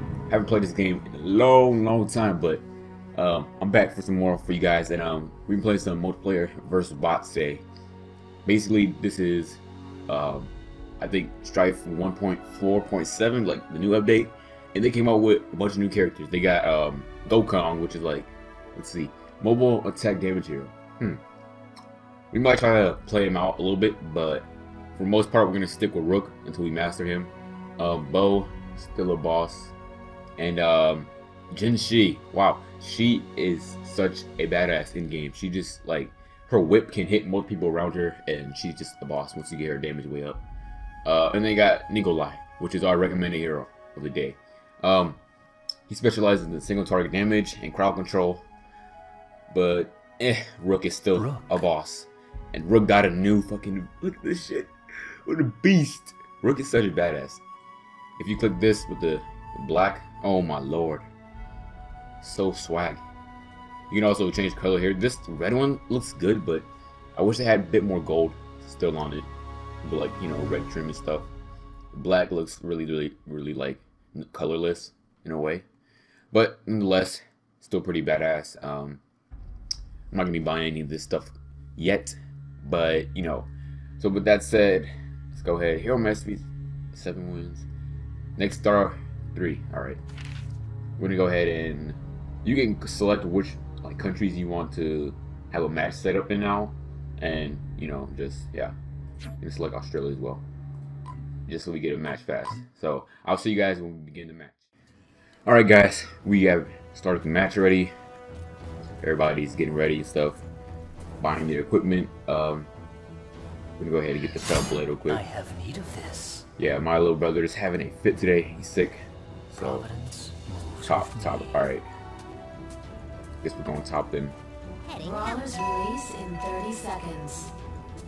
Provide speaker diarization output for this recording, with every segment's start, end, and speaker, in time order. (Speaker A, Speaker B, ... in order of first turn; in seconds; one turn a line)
Speaker A: 0.3-2.6
Speaker A: 3.1-7.6
Speaker A: 8.4-21.2
Speaker A: 22.3-29.7
Speaker A: 30.4-40.4
Speaker A: 41.0-45.2
Speaker A: 45.9-48.4
Speaker A: 49.5-57.4
Speaker B: 51.1-51.6
Speaker A: 58.2-61.0
Speaker A: 62.2-63.0
Speaker A: 63.9-69.3
Speaker A: 69.8-71.3
Speaker A: 71.9-75.6
Speaker A: 76.3-79.0
Speaker A: 80.1-83.5
Speaker A: 84.0-87.7
Speaker A: 88.3-90.0
Speaker A: 91.0-98.7
Speaker A: 99.4-100.4
Speaker A: 101.5-104.5
Speaker A: 105.5-107.9
Speaker A: 109.0-110.4
Speaker A: 111.2-112.7
Speaker A: 113.8-115.2
Speaker B: 115.1-116.5
Speaker A: 116.6-119.8
Speaker B: 119.6-121.6
Speaker A: 120.9-121.9
Speaker A: 123.4-124.3
Speaker C: 125.0-127.5